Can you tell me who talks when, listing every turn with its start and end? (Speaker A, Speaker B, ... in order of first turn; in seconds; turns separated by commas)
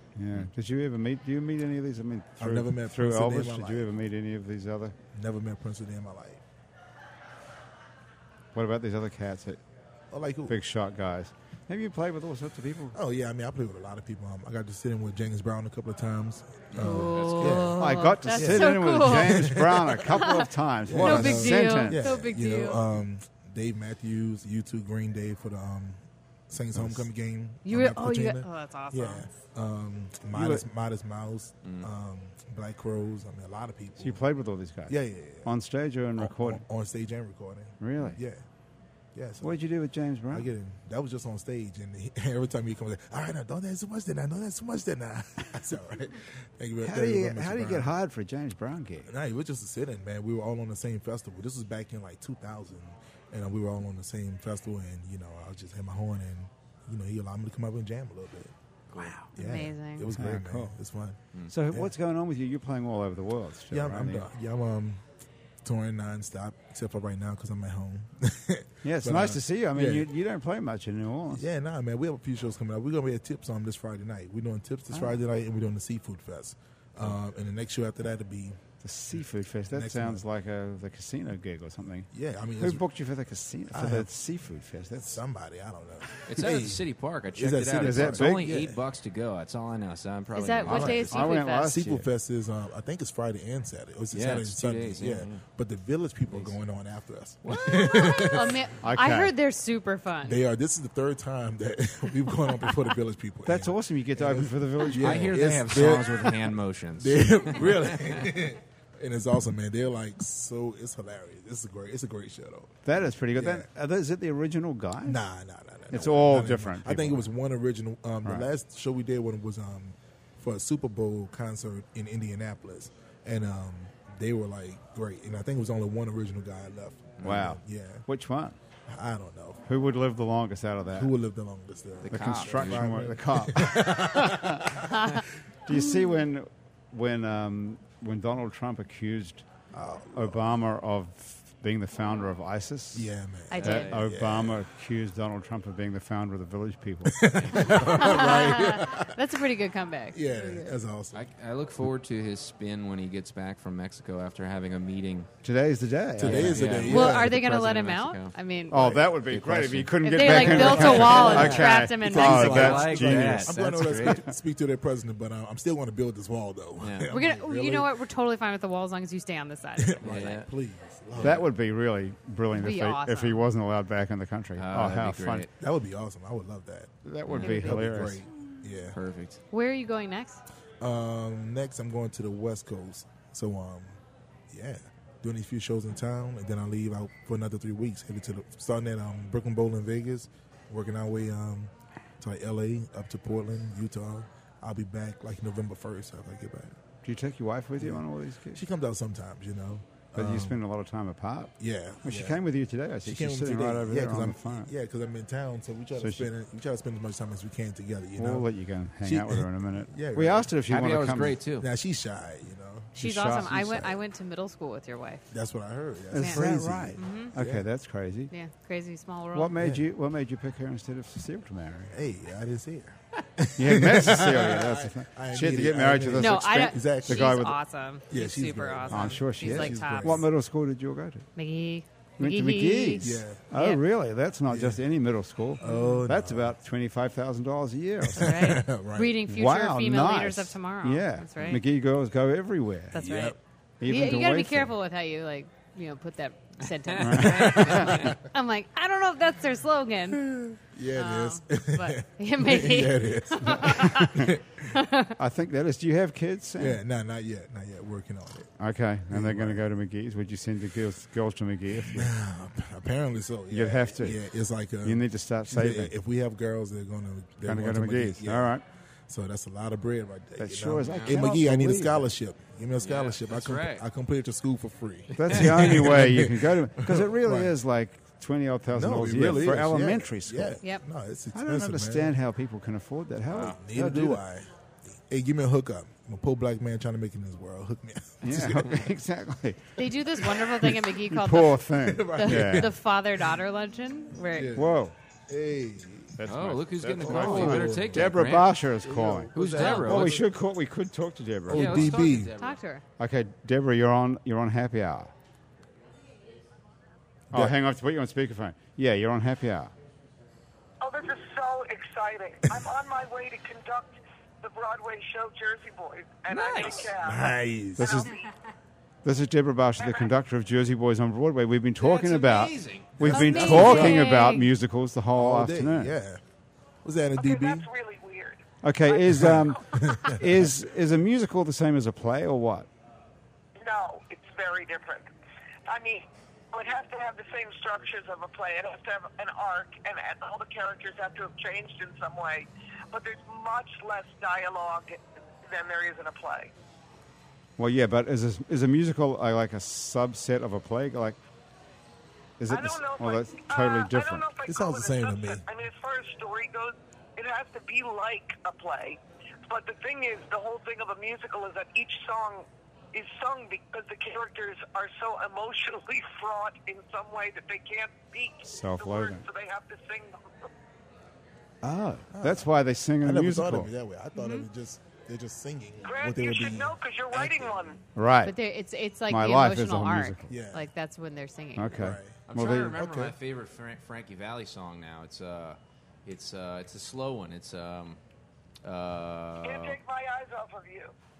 Speaker A: 0.1-5.0, Speaker B: 2.4-3.9, Speaker B: 5.1-6.4, Speaker A: 8.5-9.6, Speaker B: 10.1-10.6, Speaker A: 10.5-13.0, Speaker B: 12.9-34.2, Speaker C: 16.7-17.7, Speaker D: 16.8-20.5, Speaker A: 17.8-22.1, Speaker D: 21.0-22.8, Speaker D: 27.6-29.3, Speaker A: 30.3-30.6, Speaker C: 31.6-31.9, Speaker A: 34.0-36.6, Speaker B: 34.9-35.5, Speaker B: 36.2-38.4, Speaker A: 37.8-38.2, Speaker B: 39.1-39.6, Speaker A: 39.4-40.5, Speaker B: 40.3-47.9, Speaker A: 46.8-49.1, Speaker B: 49.0-58.5, Speaker C: 58.9-59.2, Speaker D: 59.0-60.1, Speaker B: 59.3-61.9, Speaker A: 60.1-60.7, Speaker A: 61.5-64.3, Speaker B: 63.7-65.0, Speaker B: 65.6-70.1, Speaker A: 68.8-71.4, Speaker B: 71.3-80.2, Speaker A: 78.8-85.2, Speaker B: 82.1-82.8, Speaker B: 83.7-84.1, Speaker B: 85.0-88.8, Speaker C: 86.2-91.1, Speaker A: 87.8-88.5, Speaker D: 90.3-91.8, Speaker A: 90.7-92.1, Speaker B: 90.7-98.6, Speaker C: 94.1-95.4, Speaker C: 97.5-97.9, Speaker D: 97.5-100.4, Speaker A: 98.8-99.3, Speaker B: 100.2-113.7, Speaker A: 103.5-105.4, Speaker C: 104.9-108.2, Speaker A: 112.8-115.2, Speaker B: 115.0-128.1, Speaker A: 115.9-117.2, Speaker C: 127.2-127.5, Speaker A: 127.2-128.6, Speaker B: 128.9-129.7, Speaker A: 129.7-131.1, Speaker B: 130.9-135.2, Speaker C: 132.0-133.1, Speaker A: 132.1-134.9, Speaker D: 134.9-135.2, Speaker A: 135.7-139.4, Speaker B: 139.7-140.5, Speaker A: 140.1-147.7, Speaker B: 142.9-144.7, Speaker D: 143.5-143.9, Speaker C: 143.6-144.1, Speaker B: 147.1-149.2, Speaker D: 147.7-150.7, Speaker B: 150.1-151.3, Speaker C: 151.1-155.3, Speaker A: 155.4-157.9, Speaker B: 156.2-157.3, Speaker C: 156.2-164.2, Speaker D: 156.9-158.8, Speaker A: 158.7-164.3, Speaker B: 158.8-159.0, Speaker D: 160.0-162.8, Speaker B: 160.2-167.9, Speaker C: 166.8-167.1, Speaker D: 167.1-170.4, Speaker B: 169.8-171.5, Speaker C: 170.0-170.5, Speaker C: 171.2-171.4, Speaker A: 171.2-175.5, Speaker D: 172.5-173.4, Speaker C: 174.6-175.5, Speaker B: 175.6-179.0, Speaker A: 177.0-178.2, Speaker C: 177.2-177.6, Speaker D: 177.4-177.8, Speaker C: 178.9-179.4, Speaker D: 179.5-180.4, Speaker B: 180.8-196.8, Speaker A: 197.0-198.6, Speaker B: 197.8-200.6, Speaker A: 200.2-204.7, Speaker B: 201.6-202.4, Speaker B: 203.0-210.5, Speaker A: 206.0-206.3, Speaker A: 208.2-211.4, Speaker C: 210.7-211.7, Speaker B: 211.6-214.0, Speaker D: 212.9-215.3, Speaker A: 213.0-213.8, Speaker B: 215.3-217.7, Speaker A: 216.1-218.3, Speaker D: 216.2-216.4, Speaker D: 216.9-217.3, Speaker D: 218.3-219.5, Speaker A: 219.3-221.9, Speaker B: 219.6-219.9, Speaker B: 221.9-227.4, Speaker A: 223.6-227.6, Speaker D: 226.2-230.2, Speaker B: 228.1-230.3, Speaker A: 228.9-231.2, Speaker D: 231.3-233.8, Speaker A: 232.2-238.4, Speaker B: 233.0-233.5, Speaker B: 234.5-234.8, Speaker B: 235.6-236.6, Speaker D: 235.6-236.0, Speaker B: 238.0-239.2, Speaker D: 238.2-241.6, Speaker A: 239.3-243.1, Speaker D: 242.9-250.3, Speaker B: 242.9-243.4, Speaker A: 243.8-244.7, Speaker C: 246.8-248.2, Speaker A: 247.0-247.9, Speaker B: 250.1-254.6, Speaker D: 250.9-255.2, Speaker A: 253.5-254.3, Speaker A: 255.2-256.8, Speaker B: 256.6-258.5, Speaker A: 258.6-262.1, Speaker B: 259.1-259.6, Speaker B: 261.7-268.6, Speaker A: 263.5-264.2, Speaker A: 264.8-265.9, Speaker A: 267.4-268.6, Speaker B: 269.1-277.5, Speaker A: 270.4-272.1, Speaker C: 270.8-271.2, Speaker C: 272.8-273.8, Speaker C: 275.1-275.9, Speaker A: 275.2-280.6, Speaker B: 278.7-282.2, Speaker A: 281.3-284.2, Speaker C: 283.3-283.6, Speaker B: 283.3-288.9, Speaker A: 288.2-289.8, Speaker D: 289.8-294.6, Speaker B: 290.4-290.7, Speaker A: 290.7-292.7, Speaker B: 291.7-292.8, Speaker B: 294.2-296.2, Speaker A: 294.5-294.9, Speaker A: 296.1-302.1, Speaker C: 296.2-298.6, Speaker B: 296.9-300.3, Speaker C: 299.3-300.2, Speaker B: 301.5-302.3, Speaker C: 301.5-302.6, Speaker D: 302.2-302.8, Speaker A: 303.0-305.1, Speaker B: 307.3-307.6, Speaker A: 307.3-309.7, Speaker E: 310.8-317.3, Speaker C: 316.5-316.8, Speaker B: 316.9-318.1, Speaker A: 317.8-318.1, Speaker E: 317.8-318.3, Speaker A: 319.0-325.9, Speaker E: 319.8-320.1, Speaker C: 321.8-323.9, Speaker B: 323.0-324.1, Speaker D: 323.1-324.5, Speaker B: 325.1-326.2, Speaker B: 326.8-327.7, Speaker E: 327.2-329.2, Speaker A: 328.6-332.7, Speaker B: 329.1-330.5, Speaker E: 333.6-335.1, Speaker E: 335.7-346.5, Speaker A: 347.6-351.2, Speaker A: 352.4-354.3, Speaker E: 352.5-370.5, Speaker B: 354.5-355.4, Speaker A: 368.4-369.2, Speaker A: 371.6-373.7, Speaker B: 372.1-377.8, Speaker D: 374.1-374.4, Speaker E: 375.8-377.8, Speaker A: 377.9-378.4, Speaker D: 378.2-381.8, Speaker A: 379.1-380.3, Speaker B: 380.3-380.7, Speaker A: 381.6-382.8, Speaker B: 381.7-383.1, Speaker C: 382.3-388.0, Speaker C: 388.6-389.8, Speaker E: 389.4-390.9